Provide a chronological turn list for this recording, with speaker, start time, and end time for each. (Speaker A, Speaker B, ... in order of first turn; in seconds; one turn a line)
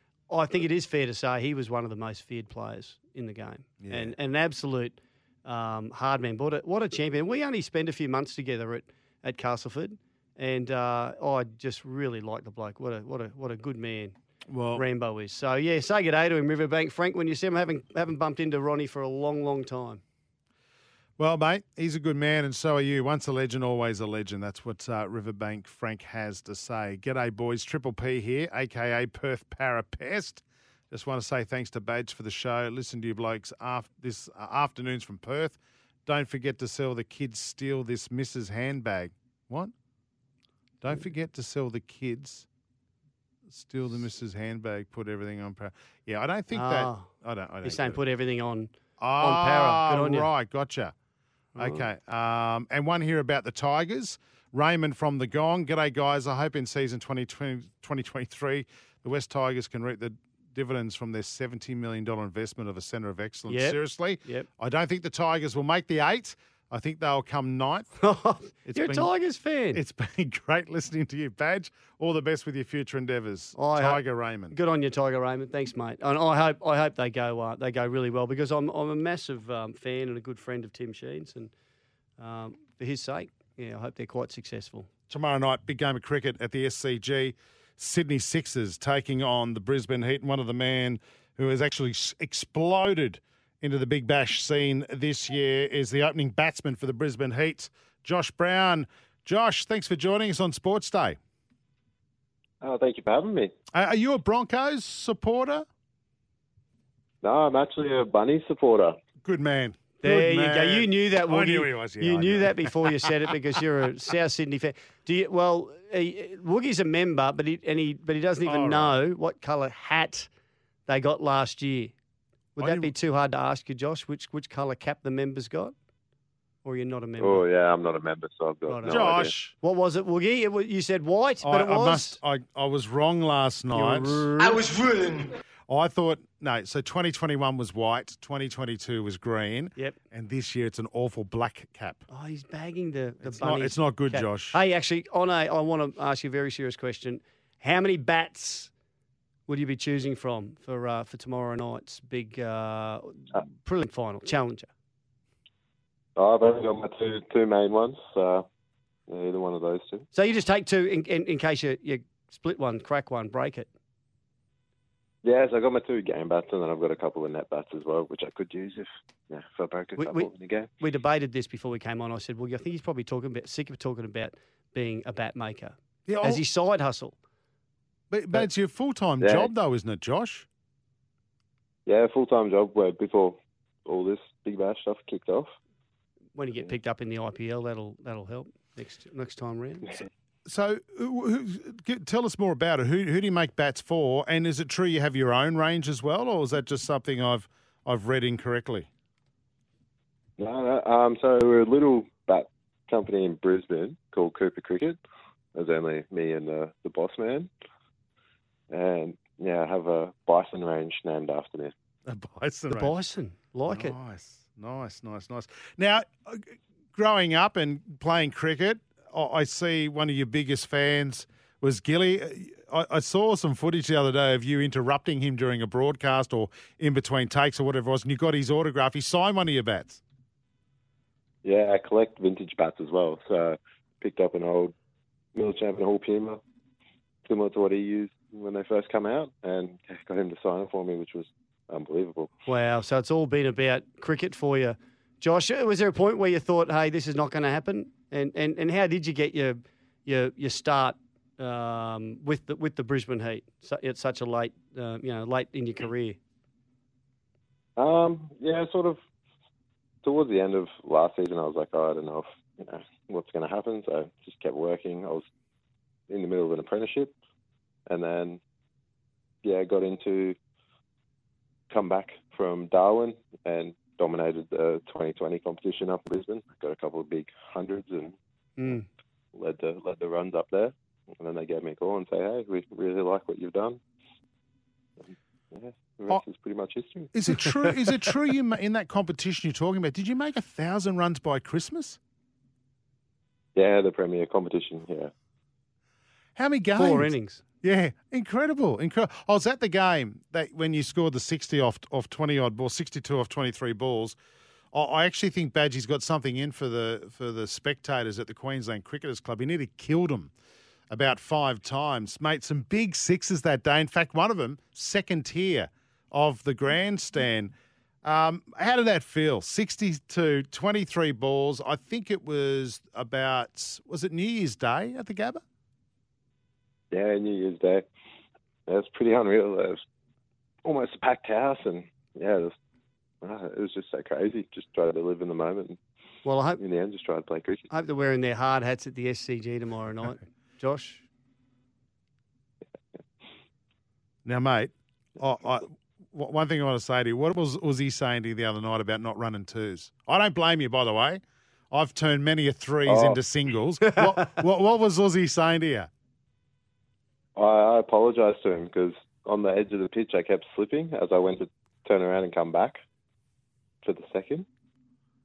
Speaker A: 0.3-14.2
Speaker B: 3.8-4.2
Speaker B: 14.5-14.8
Speaker A: 14.8-20.0
Speaker B: 21.2-39.7
Speaker B: 40.8-42.5
Speaker B: 43.5-48.0
Speaker A: 46.5-47.1
Speaker A: 47.6-50.3
Speaker B: 49.0-50.9
Speaker B: 51.6-67.9
Speaker A: 63.5-64.5
Speaker A: 68.0-69.8
Speaker B: 68.7-69.1
Speaker B: 69.7-74.6
Speaker A: 73.6-81.5
Speaker A: 82.2-84.9
Speaker B: 85.1-101.2
Speaker C: 102.6-103.5
Speaker B: 103.7-105.7
Speaker C: 107.2-109.0
Speaker B: 109.2-113.3
Speaker A: 110.0-120.3
Speaker B: 118.5-119.0
Speaker A: 120.9-121.9
Speaker A: 122.6-125.7
Speaker B: 122.6-122.9
Speaker A: 126.6-127.5
Speaker C: 127.2-129.3
Speaker A: 128.7-132.2
Speaker B: 128.9-129.6
Speaker B: 131.4-134.6
Speaker A: 133.7-134.6
Speaker B: 135.7-142.0
Speaker A: 142.1-148.7
Speaker B: 143.2-144.6
Speaker A: 149.5-154.7
Speaker C: 156.2-158.5
Speaker C: 159.1-160.1
Speaker A: 160.1-163.7
Speaker C: 165.2-170.7
Speaker A: 170.0-177.2
Speaker B: 176.1-176.4
Speaker B: 178.1-180.5
Speaker C: 179.2-179.5
Speaker C: 181.9-185.5
Speaker A: 186.4-190.0
Speaker B: 190.5-198.9
Speaker C: 200.4-205.0
Speaker C: 205.6-207.5
Speaker C: 208.7-211.7
Speaker B: 212.1-212.9
Speaker A: 212.7-214.0
Speaker B: 213.7-230.0
Speaker C: 231.4-234.7
Speaker C: 235.3-236.4
Speaker C: 237.3-242.3
Speaker A: 242.5-256.2
Speaker C: 257.8-259.0
Speaker C: 260.0-265.2
Speaker C: 266.1-267.1
Speaker C: 267.9-268.4
Speaker C: 269.4-270.4
Speaker C: 271.7-278.2
Speaker A: 278.6-278.9
Speaker C: 279.3-283.8
Speaker C: 285.0-287.1
Speaker B: 287.1-292.0
Speaker C: 293.6-295.1
Speaker B: 296.4-304.2
Speaker A: 296.8-297.4
Speaker B: 304.7-310.3
Speaker B: 310.9-317.5
Speaker B: 318.0-325.4
Speaker C: 326.9-327.9
Speaker C: 328.7-329.8
Speaker C: 330.6-332.6
Speaker C: 333.2-335.8
Speaker A: 336.2-336.6
Speaker C: 336.6-337.7
Speaker A: 337.7-341.0
Speaker B: 344.2-355.9
Speaker C: 352.9-353.2
Speaker C: 357.4-362.8
Speaker C: 363.8-364.5